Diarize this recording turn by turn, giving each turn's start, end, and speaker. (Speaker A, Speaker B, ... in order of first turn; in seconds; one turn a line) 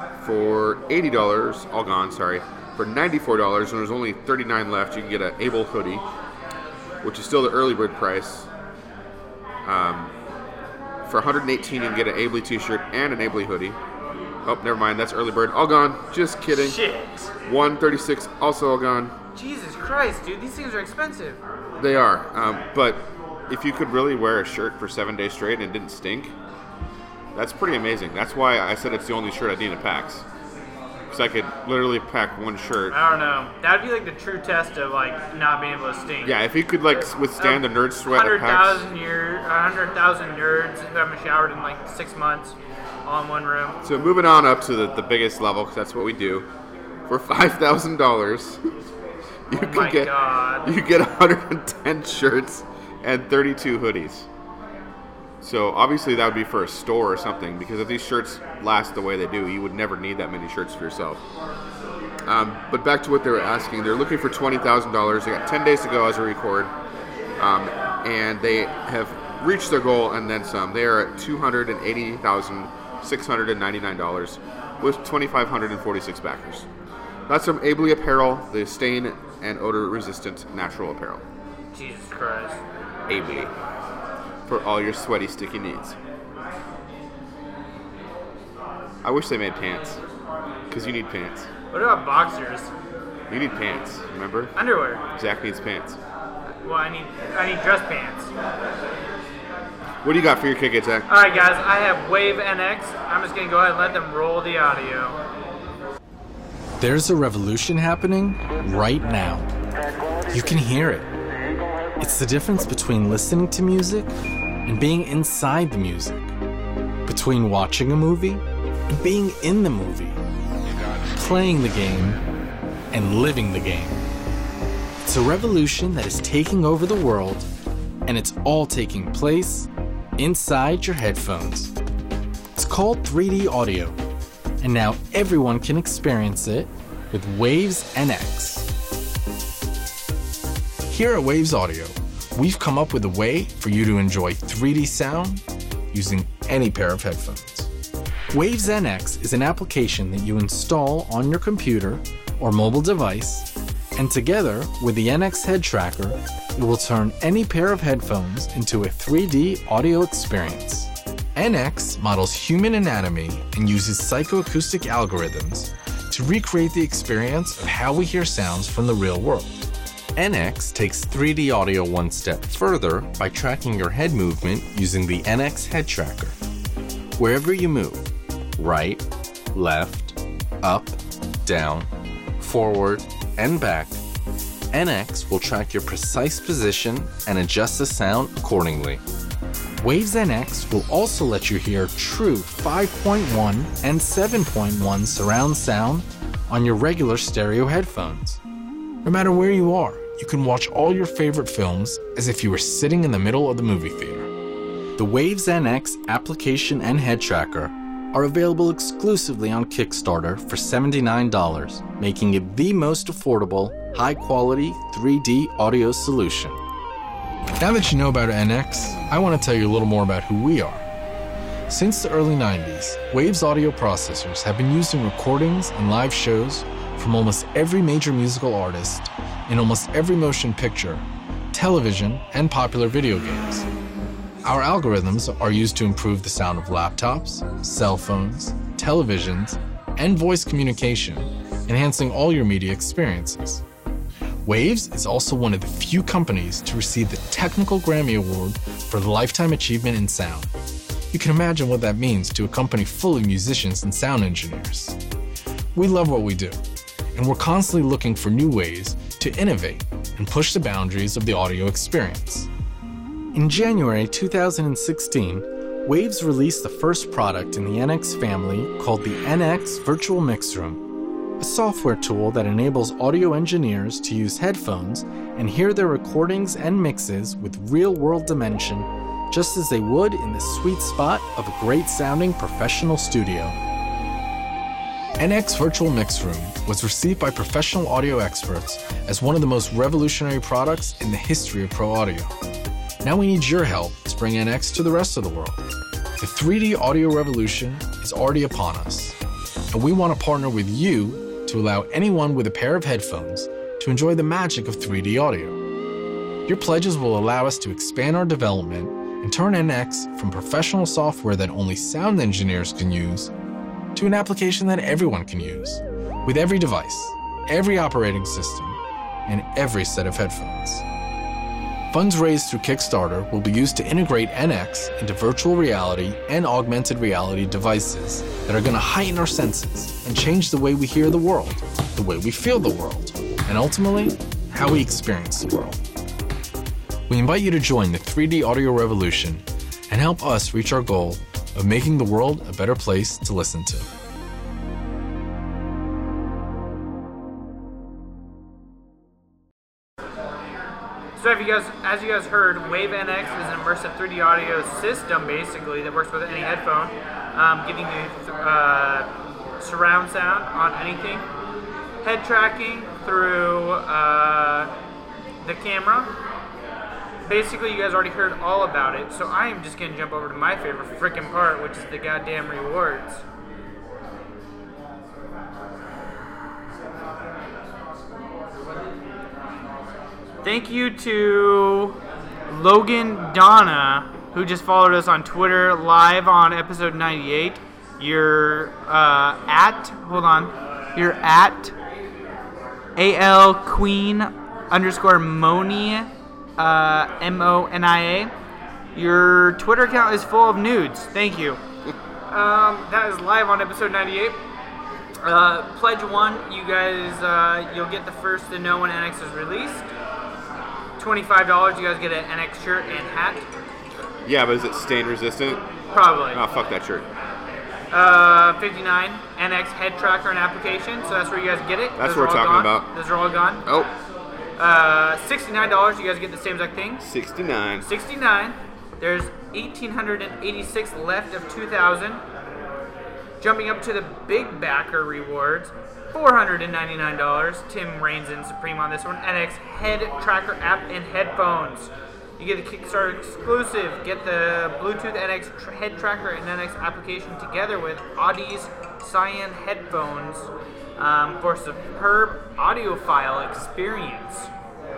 Speaker A: 0.2-6.0
Speaker A: 7.0-8.5
Speaker A: 9.6-10.1
Speaker A: 11.0-13.8
Speaker A: 14.4-16.8
Speaker B: 16.5-17.3
Speaker A: 17.4-19.1
Speaker B: 19.3-21.4
Speaker A: 21.8-26.3
Speaker A: 27.3-30.2
Speaker A: 31.1-33.0
Speaker B: 32.9-43.8
Speaker A: 36.2-38.9
Speaker A: 43.8-46.5
Speaker A: 47.1-48.6
Speaker A: 49.5-54.3
Speaker B: 49.5-50.7
Speaker A: 55.4-61.2
Speaker A: 62.3-66.7
Speaker A: 67.4-76.7
Speaker A: 77.3-81.2
Speaker B: 81.7-82.6
Speaker A: 83.1-83.5
Speaker A: 84.5-86.0
Speaker A: 89.0-90.0
Speaker A: 90.7-91.5
Speaker B: 91.7-92.7
Speaker A: 93.3-94.5
Speaker B: 94.5-95.0
Speaker A: 95.1-96.0
Speaker B: 96.6-98.3
Speaker A: 100.0-101.1
Speaker B: 101.1-105.2
Speaker C: 106.8-109.5
Speaker C: 110.3-111.1
Speaker C: 112.0-116.3
Speaker C: 117.0-120.2
Speaker C: 121.1-122.2
Speaker C: 122.9-124.0
Speaker C: 125.0-127.5
Speaker C: 128.1-131.7
Speaker C: 132.5-134.0
Speaker C: 134.6-138.7
Speaker C: 140.8-147.7
Speaker C: 148.3-169.6
Speaker C: 170.1-176.4
Speaker C: 177.2-184.0
Speaker C: 184.7-189.0
Speaker C: 189.8-198.4
Speaker C: 199.0-204.3
Speaker C: 204.9-216.6
Speaker C: 217.6-220.8
Speaker C: 221.7-233.7
Speaker C: 234.4-243.6
Speaker C: 244.4-250.5
Speaker C: 251.1-255.0
Speaker C: 255.7-256.6
Speaker C: 257.1-262.5
Speaker C: 263.3-270.8
Speaker C: 271.4-283.6
Speaker C: 285.2-292.3
Speaker C: 293.0-299.1
Speaker C: 299.7-305.6
Speaker C: 306.4-313.3
Speaker C: 313.9-320.8
Speaker C: 321.9-335.8
Speaker C: 337.1-343.9
Speaker B: 351.1-361.3
Speaker B: 362.0-364.7
Speaker B: 365.4-366.1
Speaker B: 367.2-373.2
Speaker B: 380.4-391.7
Speaker B: 393.0-398.3
Speaker B: 398.9-401.6
Speaker B: 402.3-404.4
Speaker B: 405.2-409.9
Speaker B: 411.0-413.5
Speaker A: 414.2-415.6
Speaker B: 415.9-416.4
Speaker A: 416.3-417.1
Speaker B: 417.9-423.6
Speaker A: 422.0-422.9
Speaker A: 423.6-423.9
Speaker B: 424.6-427.1
Speaker A: 427.0-427.9
Speaker B: 427.8-432.2
Speaker B: 433.4-454.5